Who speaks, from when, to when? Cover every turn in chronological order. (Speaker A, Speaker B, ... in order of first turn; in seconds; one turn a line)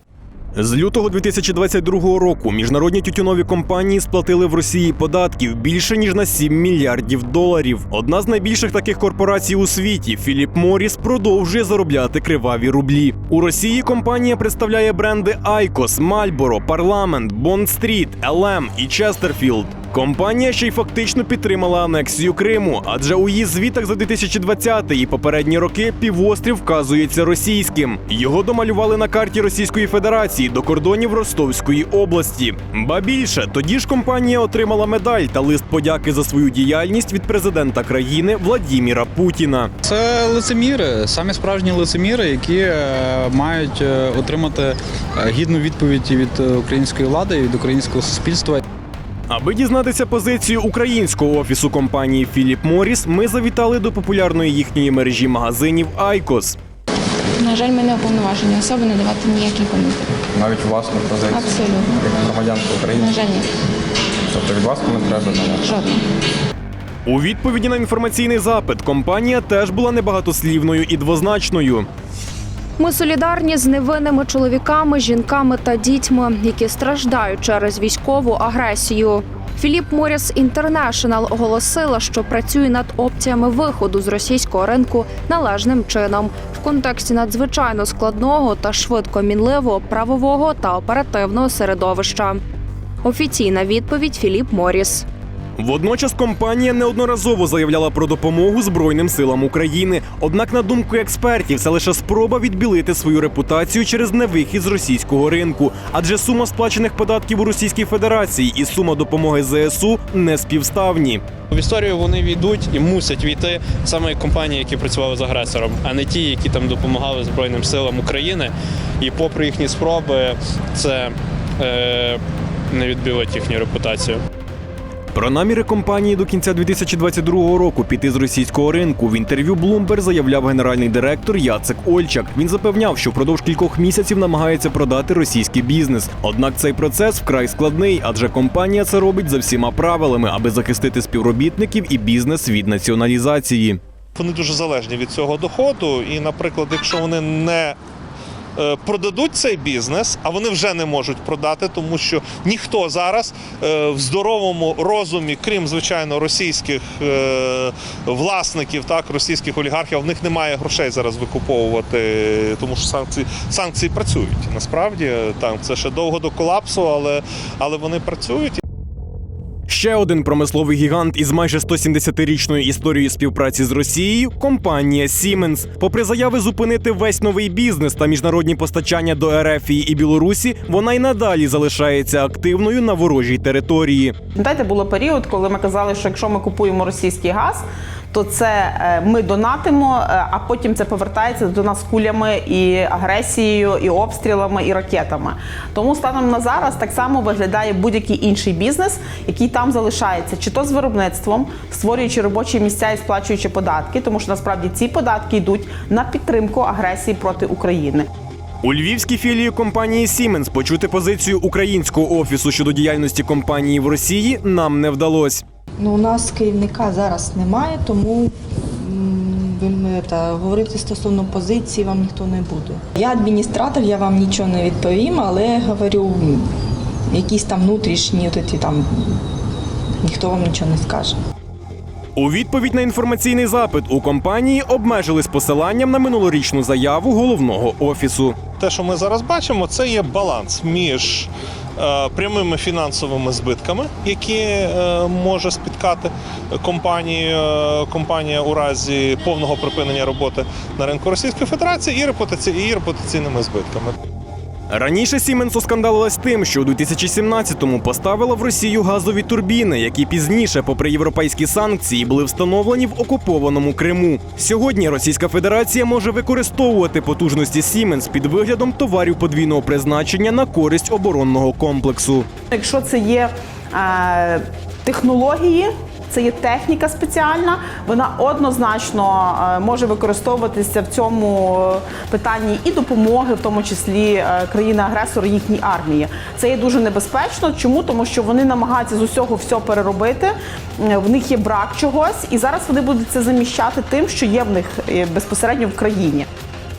Speaker A: 0.5-39.7
Speaker B: 39.8-48.6
Speaker A: 49.3-56.6
Speaker C: 57.4-60.1
Speaker D: 60.3-63.2
Speaker C: 61.3-62.0
Speaker C: 62.9-63.5
Speaker D: 64.3-65.8
Speaker C: 65.6-66.0
Speaker A: 67.0-71.8
Speaker E: 72.8-92.4
Speaker E: 93.0-95.0
Speaker A: 95.6-111.2
Speaker F: 111.5-124.2
Speaker A: 125.1-143.8
Speaker G: 144.2-147.8
Speaker G: 148.6-168.6
Speaker A: 169.7-184.1
Speaker H: 184.3-208.1
Speaker A: 208.6-215.4
Speaker I: 215.8-226.5
Speaker I: 227.1-229.2
Speaker I: 230.0-231.2
Speaker A: 232.2-238.4
Speaker G: 238.6-254.0
Speaker A: 254.7-272.3
Speaker H: 272.5-296.2